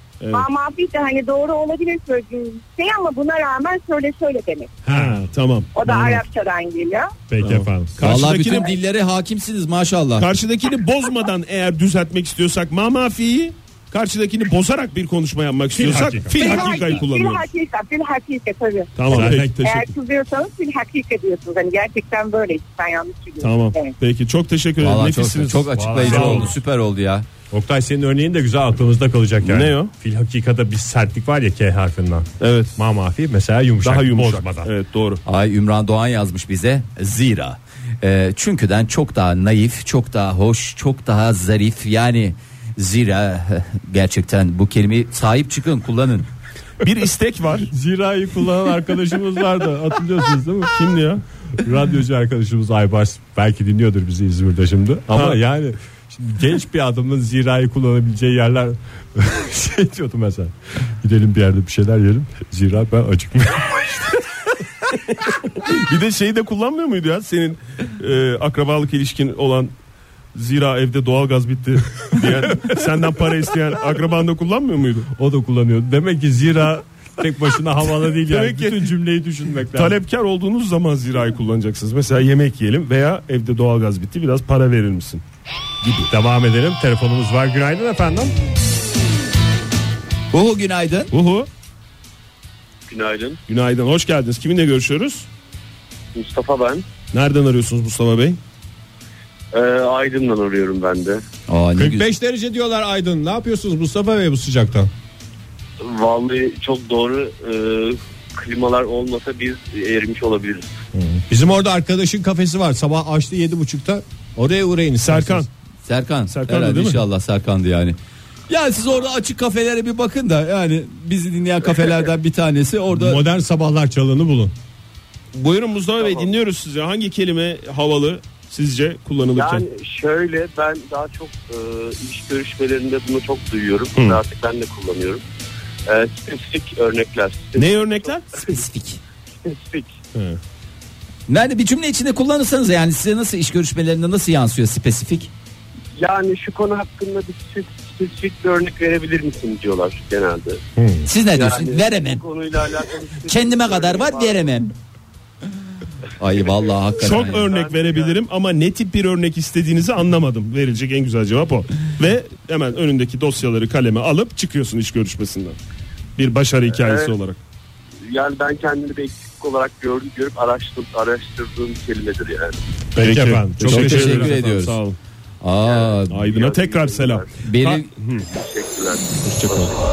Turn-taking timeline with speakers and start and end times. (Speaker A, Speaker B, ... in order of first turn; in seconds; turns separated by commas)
Speaker A: 0.2-0.5, Speaker B: 0.3-4.7, Speaker C: 4.8-5.3, Speaker A: 4.9-6.2, Speaker B: 5.8-7.1, Speaker C: 7.3-7.9, Speaker A: 7.4-8.7, Speaker D: 8.0-10.3, Speaker A: 10.2-17.5, Speaker C: 15.8-16.6, Speaker B: 16.3-23.9, Speaker A: 19.0-19.9, Speaker C: 19.1-19.6, Speaker A: 23.4-26.5, Speaker D: 24.8-27.3, Speaker C: 25.7-26.6, Speaker C: 27.5-34.7, Speaker A: 29.4-29.9, Speaker A: 32.4-32.8, Speaker A: 33.8-35.2, Speaker D: 35.2-46.3, Speaker A: 46.8-47.7, Speaker C: 47.7-50.7, Speaker A: 50.7-51.2, Speaker C: 51.6-64.2, Speaker A: 55.1-55.4, Speaker A: 65.6-69.7, Speaker A: 70.3-75.1, Speaker C: 75.1-80.0, Speaker A: 78.3-79.0, Speaker A: 79.7-85.2, Speaker C: 86.1-88.3, Speaker D: 90.3-91.1, Speaker A: 91.1-91.5, Speaker E: 92.9-93.4, Speaker A: 93.5-95.3, Speaker E: 96.1-96.9, Speaker A: 97.1-98.4, Speaker E: 99.5-101.2, Speaker D: 101.5-102.1, Speaker C: 101.8-104.9, Speaker E: 105.8-110.7, Speaker C: 111.0-115.5, Speaker A: 115.0-115.5, Speaker D: 115.9-118.0, Speaker A: 116.3-117.0, Speaker D: 118.5-123.2, Speaker C: 122.9-124.5, Speaker A: 125.3-129.7, Speaker E: 126.0-126.3, Speaker E: 129.3-135.2, Speaker E: 135.9-138.6, Speaker A: 137.6-138.3, Speaker D: 138.3-139.0, Speaker E: 139.4-140.0, Speaker A: 140.1-140.4, Speaker D: 141.3-145.3, Speaker E: 145.9-150.6, Speaker C: 150.8-151.1, Speaker D: 151.1-152.2, Speaker E: 151.3-154.5, Speaker D: 153.3-154.7, Speaker D: 156.2-157.5, Speaker A: 157.0-165.6, Speaker E: 157.1-158.2, Speaker A: 166.2-167.4, Speaker E: 166.7-167.2, Speaker E: 168.1-172.6, Speaker C: 172.9-174.4, Speaker A: 173.0-175.0, Speaker D: 173.7-174.8, Speaker D: 175.4-176.2, Speaker E: 175.7-177.3, Speaker A: 176.1-178.3, Speaker D: 177.4-177.9, Speaker E: 178.3-179.8, Speaker A: 179.2-179.7